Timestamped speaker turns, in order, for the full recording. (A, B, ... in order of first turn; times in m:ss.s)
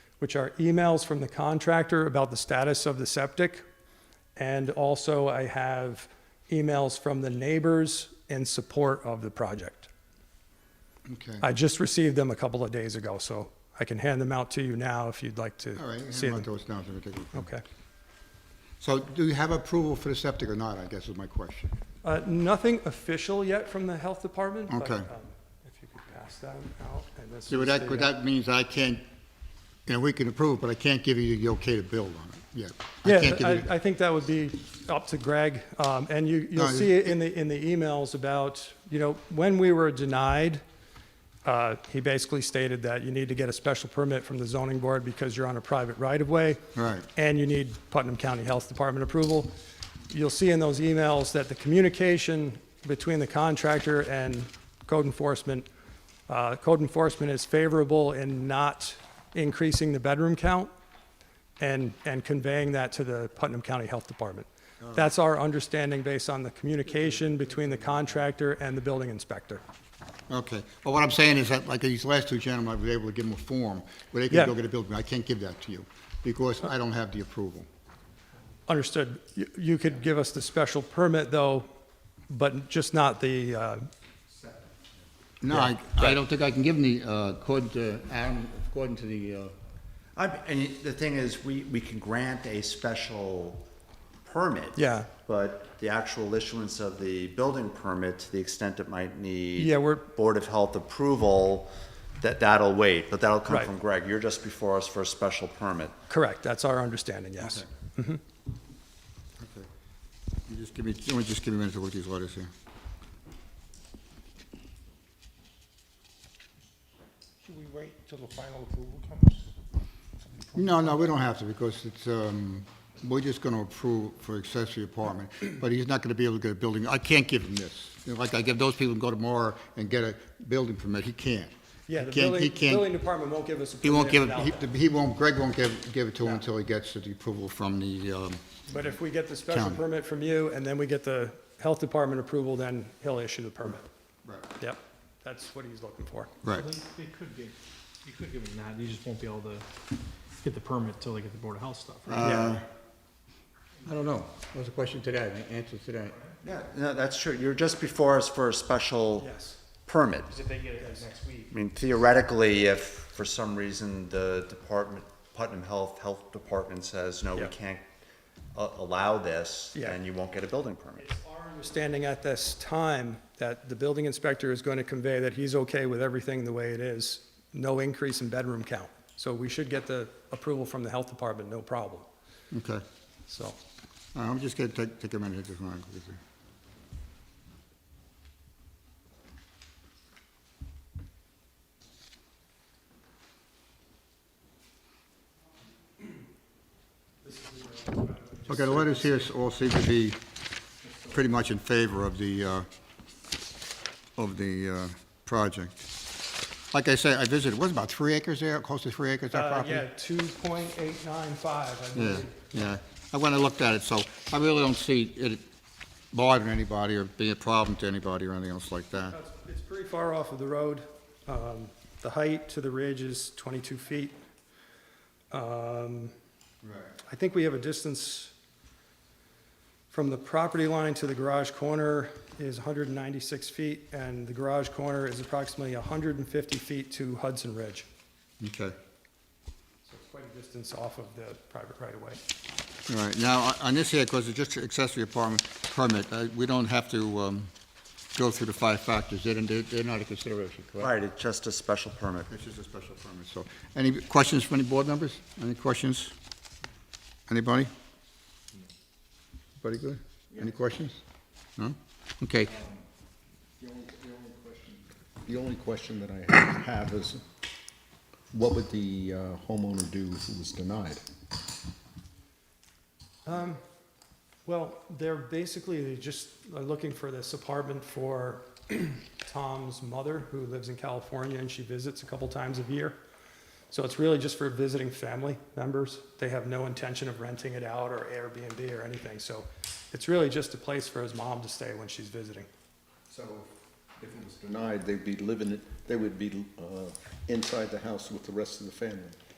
0:00.2-0:03.6 A
0:04.4-0:09.9 A
0:11.1-0:11.4 B
0:11.4-0:16.5 A
0:15.8-0:17.5 B
0:17.3-0:17.6 A
0:18.8-0:21.8 B
0:22.0-0:28.1 A
0:24.7-0:25.1 B
0:27.5-0:29.0 B
0:29.9-0:33.7 B
0:33.0-0:40.6 A
0:36.6-0:37.2 B
0:41.4-0:46.6 A
0:46.8-0:47.1 B
0:47.2-0:49.6 A
0:50.1-0:55.7 A
0:56.3-1:00.7 A
1:01.6-1:09.6 A
1:04.8-1:05.1 B
1:10.3-1:17.7 B
1:18.7-1:21.7 A
1:22.3-1:23.9 A
1:25.4-1:29.5 B
1:25.5-1:26.2 A
1:30.2-1:33.7 C
1:34.2-1:46.0 C
1:34.8-1:35.1 A
1:39.6-1:40.1 A
1:46.1-1:48.2 A
1:47.4-1:47.7 B
1:49.4-1:49.7 B
1:50.5-1:52.5 B
1:57.4-1:59.5 D
2:00.2-2:01.0 D
2:00.6-2:12.9 B
2:11.9-2:14.7 A
2:13.8-2:18.6 B
2:18.7-2:23.9 A
2:19.5-2:19.8 B
2:24.6-2:26.4 A
2:26.4-2:26.7 B
2:26.5-2:29.6 E
2:30.4-2:32.3 E
2:32.1-2:32.6 B
2:32.2-2:32.6 A
2:33.8-2:36.2 B
2:36.4-2:39.3 C
2:39.2-2:39.6 A
2:39.9-2:40.4 C
2:40.3-2:41.5 E
2:40.8-2:41.1 A
2:41.5-2:47.8 C
2:48.5-2:51.0 C
2:51.0-3:02.1 A
3:02.5-3:02.8 B
3:03.3-3:03.6 A
3:04.1-3:06.2 B
3:17.2-3:19.3 A
3:18.5-3:20.2 B
3:21.1-3:22.7 B
3:24.2-3:25.9 B
3:26.7-3:29.8 B
3:29.3-3:32.6 A
3:32.0-3:35.4 B
3:36.1-3:39.2 B
3:39.1-3:44.2 A
3:45.3-3:46.1 A
3:46.6-3:46.9 B
3:47.1-3:48.3 A
3:49.9-3:57.9 A
3:58.4-3:58.8 B
3:59.9-4:02.2 A
4:02.9-4:07.5 B
4:08.1-4:10.9 B
4:10.8-4:12.3 C
4:12.3-4:16.1 B
4:17.3-4:17.7 B
4:19.6-4:21.0 B
4:21.6-4:22.5 B
4:22.5-4:22.8 F
4:23.6-4:27.2 F
4:28.3-4:31.0 F
4:33.3-4:33.6 A
4:34.4-4:43.0 A
4:43.7-4:52.5 A
4:53.1-4:59.2 F